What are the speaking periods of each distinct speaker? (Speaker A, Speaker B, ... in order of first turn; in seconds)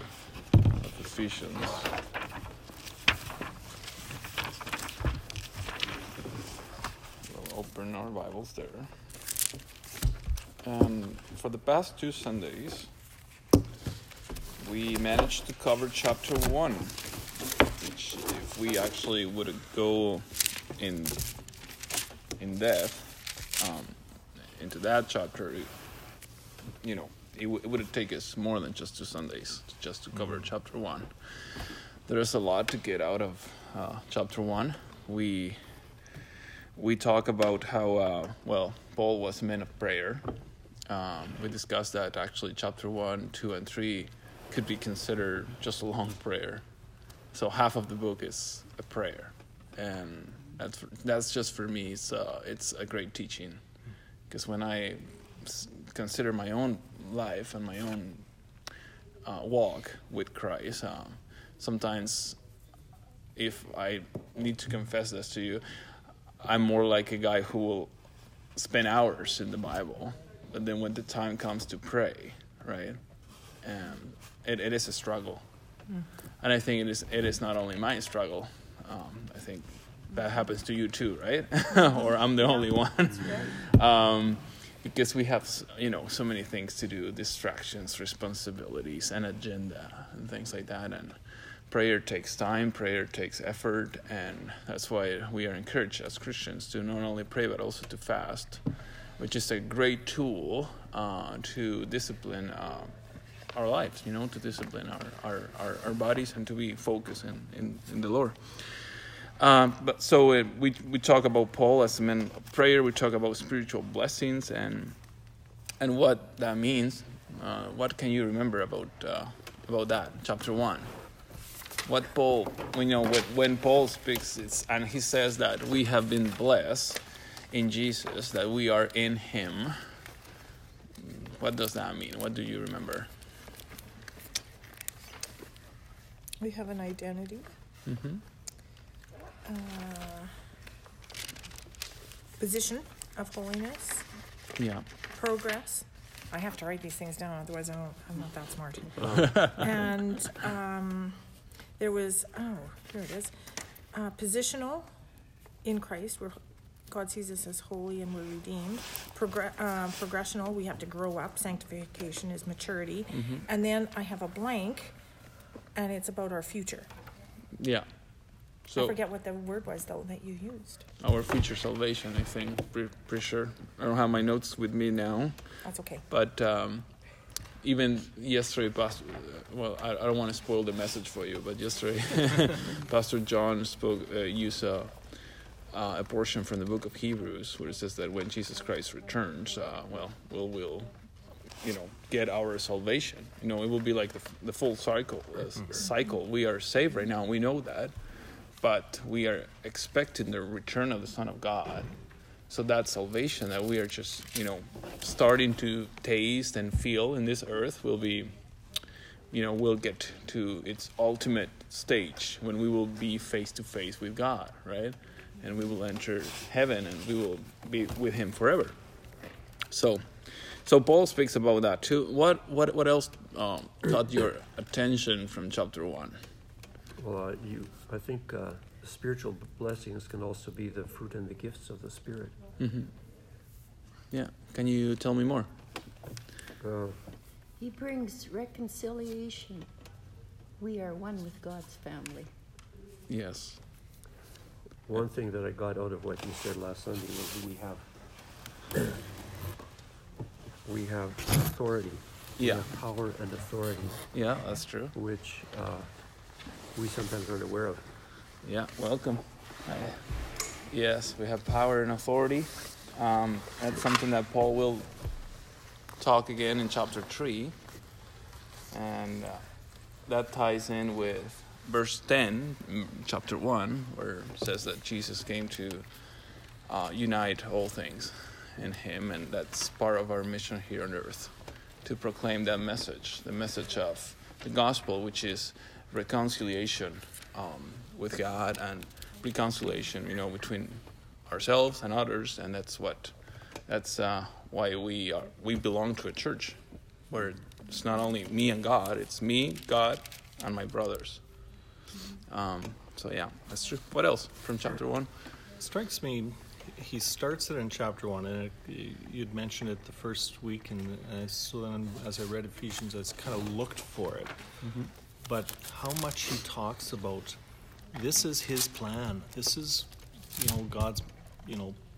Speaker A: 0.7-1.9, 7.2-8.9, 10.6-12.9, 14.6-17.1, 17.8-21.3, 22.4-25.7, 26.8-35.6, 36.8-40.3, 40.9-46.6, 47.3-53.6, 54.3-58.3, 59.2-62.4, 63.4-67.9, 68.5-75.4, 76.4-98.6, 99.2-103.0, 103.5-115.0, 115.8-120.9, 121.8-129.8, 131.0-133.1, 137.9-138.2, 144.6-144.9, 163.1-163.4, 167.6-167.9, 168.7-169.0, 171.0-176.9, 177.6-185.1, 185.7-191.0, 191.6-197.9, 198.6-201.9, 202.5-208.3, 209.3-218.8, 219.7-226.2, 232.6-232.9, 234.1-235.5, 243.1-243.6, 252.4-252.7, 254.1-254.9, 258.4-264.9, 266.0-267.6, 268.7-269.4, 270.1-275.9, 276.7-296.6, 297.1-301.2, 302.3-305.1, 314.6-314.9
Speaker B: 30.2-30.4, 305.6-314.5, 315.2-317.4, 317.9-321.8
Speaker C: 136.4-137.5, 139.4-140.3, 142.4-144.1, 145.1-151.2, 151.8-153.3, 153.9-154.9, 155.6-156.3, 156.9-164.9, 165.8-166.9, 168.8-170.9, 175.6-176.1
Speaker D: 149.0-149.8, 227.0-232.4, 236.6-237.0, 244.9-247.9, 250.6-254.1, 254.9-255.9, 256.7-257.9
Speaker E: 237.6-239.7, 240.6-242.3